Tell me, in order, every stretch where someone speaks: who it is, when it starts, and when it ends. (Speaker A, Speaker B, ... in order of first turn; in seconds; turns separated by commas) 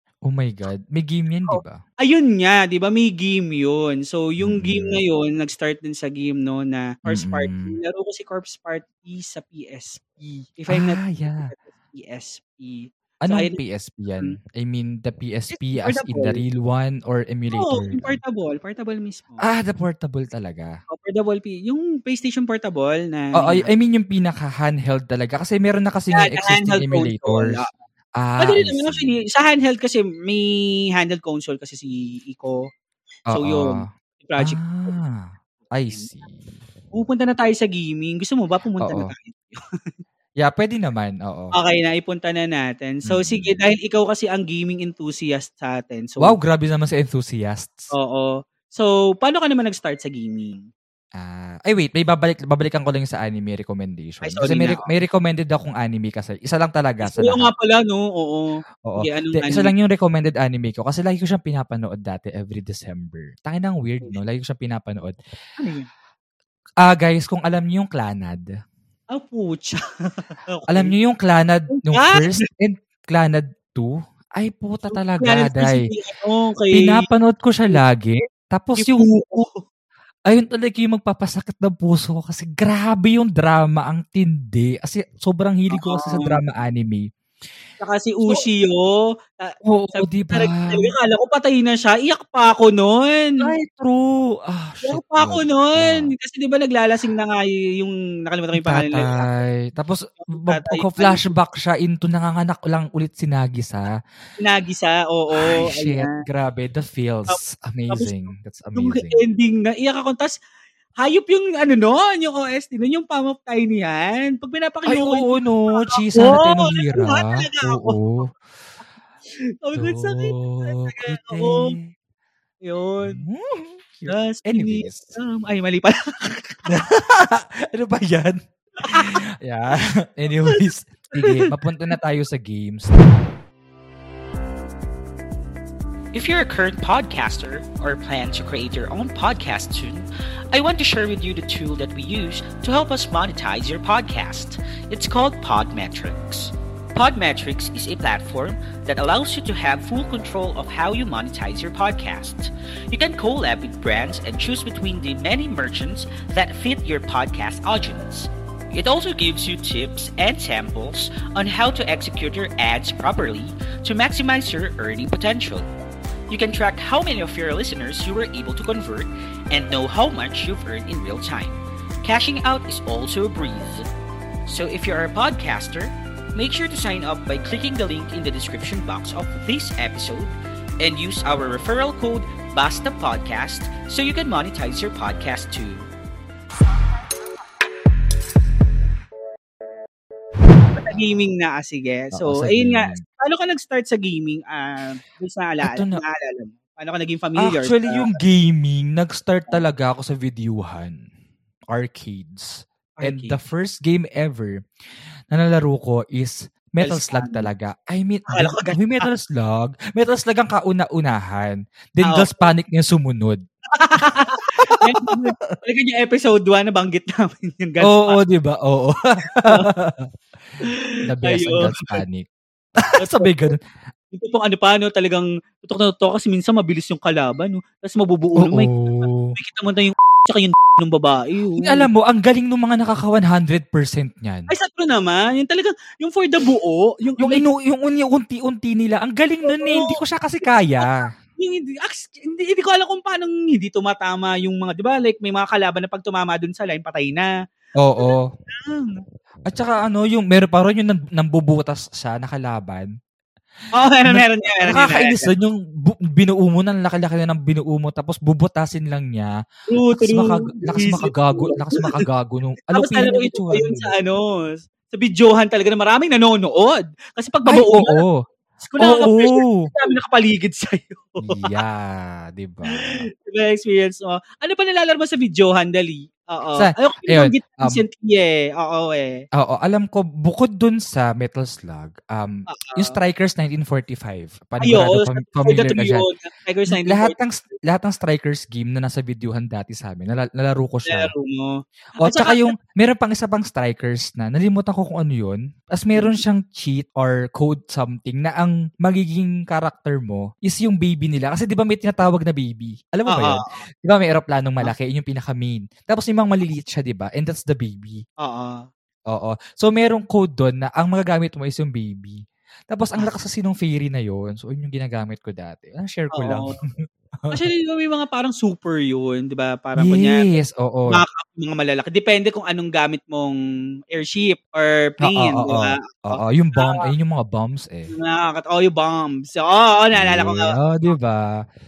Speaker A: 0.3-1.8, Speaker B: 1.5-13.6, Speaker A: 4.4-5.0, Speaker A: 7.1-7.8, Speaker A: 10.7-11.5, Speaker A: 13.3-18.2, Speaker B: 15.5-16.4, Speaker B: 17.5-19.4, Speaker A: 19.4-20.8, Speaker B: 20.9-23.7, Speaker A: 23.4-27.6, Speaker B: 26.1-27.8, Speaker A: 28.2-29.1, Speaker B: 28.4-32.6, Speaker A: 33.3-33.9, Speaker B: 33.3-35.0, Speaker A: 34.4-36.4, Speaker B: 35.6-36.1, Speaker B: 36.9-39.6, Speaker A: 38.8-39.1, Speaker A: 40.4-41.5, Speaker B: 41.5-46.4, Speaker A: 43.1-43.6, Speaker A: 46.2-47.9, Speaker B: 47.9-50.6, Speaker A: 51.1-57.5, Speaker B: 54.2-54.9, Speaker B: 57.0-59.7, Speaker A: 58.9-65.2, Speaker B: 65.6-65.9, Speaker A: 66.8-68.4, Speaker B: 69.1-71.0, Speaker A: 70.7-75.8, Speaker B: 71.7-72.4, Speaker B: 74.9-77.1, Speaker A: 76.7-79.1, Speaker B: 78.8-79.6, Speaker A: 80.3-87.1, Speaker B: 85.7-86.4, Speaker B: 87.8-93.5, Speaker A: 89.7-90.9, Speaker A: 93.4-96.1, Speaker B: 94.8-99.3, Speaker A: 98.6-103.9, Speaker B: 100.2-101.3, Speaker B: 104.4-106.2, Speaker A: 105.4-109.2, Speaker B: 107.3-108.2, Speaker B: 108.8-110.4, Speaker B: 111.0-118.3, Speaker A: 114.9-118.3, Speaker B: 119.6-121.8, Speaker A: 119.8-121.9, Speaker B: 122.6-123.2, Speaker A: 123.0-125.2, Speaker B: 124.1-126.7, Speaker A: 126.7-132.9, Speaker B: 128.8-129.2, Speaker B: 130.3-130.6, Speaker B: 131.2-131.5, Speaker C: 136.1-165.7, Speaker C: 166.3-173.9, Speaker C: 174.5-185.9, Speaker B: 190.8-198.2, Speaker A: 192.1-193.0, Speaker A: 195.6-196.0, Speaker A: 197.4-201.0, Speaker A: 201.7-204.6, Speaker B: 203.0-203.4, Speaker A: 205.3-213.4, Speaker B: 206.8-207.5, Speaker B: 208.3-209.1, Speaker B: 212.0-212.5, Speaker B: 213.8-218.2, Speaker A: 214.0-215.6, Speaker A: 217.8-220.1, Speaker B: 219.4-219.7, Speaker B: 220.6-222.0, Speaker A: 221.1-222.3, Speaker A: 222.8-223.6, Speaker B: 223.0-223.5, Speaker B: 224.1-231.9, Speaker A: 228.4-229.4, Speaker A: 231.6-234.5, Speaker B: 234.5-237.4, Speaker A: 237.2-241.1, Speaker B: 239.4-240.0, Speaker B: 240.8-247.3, Speaker A: 247.8-248.3, Speaker B: 248.0-249.0, Speaker A: 249.5-252.9, Speaker B: 253.7-255.3, Speaker A: 254.1-259.3, Speaker B: 259.7-262.0, Speaker A: 259.9-264.0, Speaker B: 262.7-268.0, Speaker A: 267.5-268.2, Speaker B: 268.6-271.6, Speaker A: 268.8-269.7, Speaker A: 271.2-273.1, Speaker B: 272.8-279.2, Speaker A: 276.6-277.8, Speaker A: 279.4-286.1, Speaker B: 282.5-283.0, Speaker B: 284.6-287.2, Speaker A: 286.7-291.1, Speaker B: 290.9-292.5, Speaker A: 292.0-308.0, Speaker B: 303.1-303.6, Speaker B: 308.2-308.6, Speaker A: 309.1-317.4, Speaker B: 316.1-316.5, Speaker B: 317.3-320.2, Speaker A: 319.8-321.0, Speaker B: 320.9-323.4, Speaker B: 323.9-326.9, Speaker A: 325.0-327.9, Speaker B: 327.9-330.6, Speaker A: 329.9-331.4